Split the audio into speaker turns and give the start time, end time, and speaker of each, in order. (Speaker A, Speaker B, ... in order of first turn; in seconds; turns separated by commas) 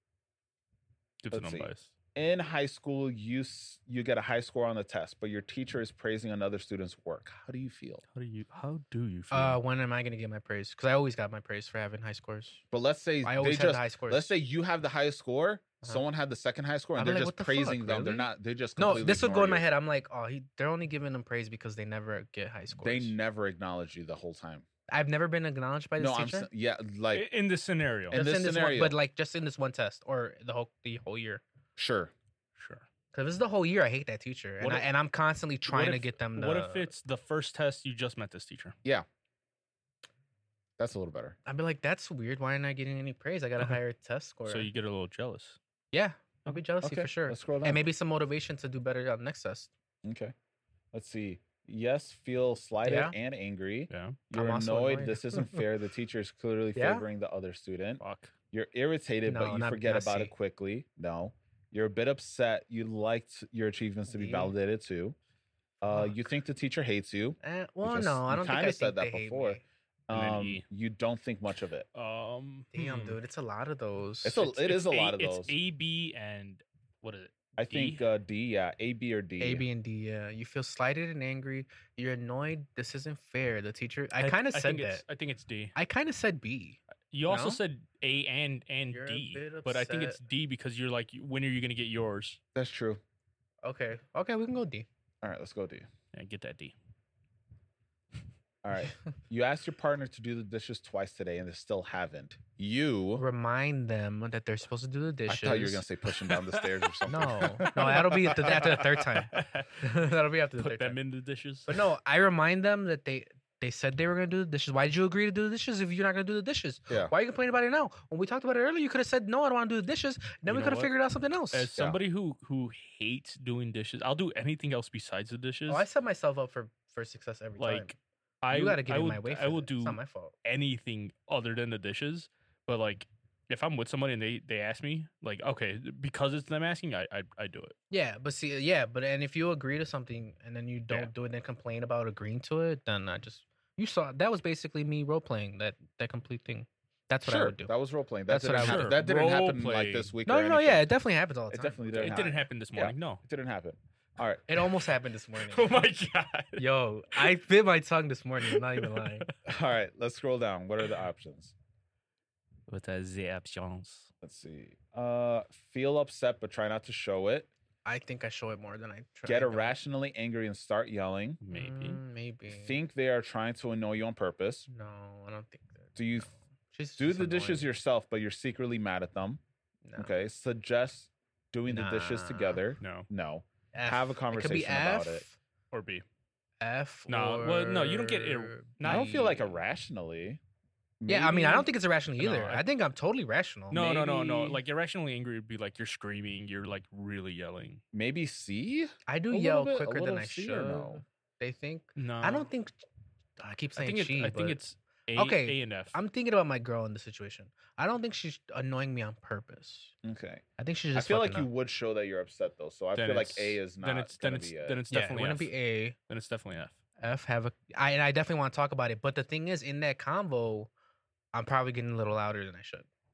Speaker A: 1.2-1.9, Speaker B: 1.3-8.0, Speaker A: 8.1-9.6, Speaker C: 9.3-12.6, Speaker B: 12.7-19.6, Speaker C: 13.2-14.3, Speaker C: 17.0-23.1, Speaker B: 22.8-24.7, Speaker C: 24.9-26.5, Speaker B: 26.0-27.3, Speaker A: 27.1-28.2, Speaker B: 28.1-29.0, Speaker C: 28.1-31.4, Speaker B: 31.8-32.1, Speaker A: 32.6-32.9, Speaker C: 33.1-36.9, Speaker A: 34.6-34.9, Speaker A: 35.7-38.8, Speaker B: 40.8-41.4, Speaker C: 41.5-44.7, Speaker A: 44.5-45.6, Speaker C: 45.9-49.7, Speaker B: 46.8-47.9, Speaker B: 50.0-50.3, Speaker B: 50.9-65.2, Speaker C: 52.9-53.1, Speaker A: 53.9-54.2, Speaker C: 54.3-55.6, Speaker C: 56.8-57.0, Speaker A: 58.0-58.3, Speaker C: 59.3-60.3, Speaker C: 64.1-64.5, Speaker B: 65.8-71.9, Speaker C: 65.9-66.2, Speaker C: 67.4-69.6, Speaker A: 70.1-70.7, Speaker A: 71.9-73.2, Speaker C: 72.7-74.6, Speaker B: 74.2-75.5, Speaker A: 74.6-78.0, Speaker B: 77.6-79.7, Speaker C: 79.4-85.0, Speaker A: 84.2-85.7, Speaker C: 85.8-87.6, Speaker A: 87.1-92.4, Speaker C: 88.9-90.2, Speaker B: 92.5-93.0, Speaker C: 93.6-94.9, Speaker B: 95.2-95.9, Speaker A: 96.1-96.7, Speaker B: 98.6-103.2, Speaker C: 103.2-105.8, Speaker B: 105.3-109.1, Speaker C: 107.1-111.0, Speaker A: 109.3-109.7, Speaker A: 110.6-111.8, Speaker C: 111.7-121.7, Speaker A: 120.5-120.9, Speaker A: 121.5-125.8, Speaker C: 125.7-128.0, Speaker A: 127.6-137.8, Speaker C: 128.5-130.3, Speaker C: 137.9-147.7, Speaker B: 147.2-150.9, Speaker C: 148.3-149.0, Speaker A: 148.5-150.1, Speaker C: 150.3-152.3, Speaker B: 151.5-154.5, Speaker A: 151.9-153.2, Speaker C: 154.5-155.8, Speaker A: 155.4-156.6, Speaker C: 156.6-159.3, Speaker A: 158.4-159.3, Speaker B: 159.5-161.5, Speaker A: 162.7-164.1, Speaker B: 164.2-167.5, Speaker C: 167.8-169.8, Speaker B: 169.2-171.4, Speaker A: 171.4-172.0, Speaker C: 171.5-172.8, Speaker B: 172.5-174.7, Speaker C: 174.7-177.7, Speaker B: 176.0-176.3, Speaker B: 177.0-179.4, Speaker C: 179.9-180.1, Speaker B: 180.0-185.2, Speaker C: 181.7-182.6, Speaker A: 182.8-183.1, Speaker C: 183.7-185.4, Speaker A: 185.7-186.1, Speaker C: 186.6-189.6, Speaker A: 187.1-189.2, Speaker B: 188.8-190.4, Speaker B: 191.0-191.7, Speaker C: 191.1-194.6, Speaker A: 192.2-192.6, Speaker A: 193.7-197.8, Speaker B: 197.9-201.0, Speaker C: 199.1-202.8, Speaker A: 202.0-202.5, Speaker C: 203.4-204.6, Speaker A: 203.8-205.9, Speaker C: 205.2-209.9, Speaker B: 210.0-214.8, Speaker C: 210.6-211.5, Speaker A: 212.9-215.5, Speaker C: 214.9-216.0, Speaker A: 216.1-216.8, Speaker C: 217.0-220.7, Speaker C: 221.3-222.9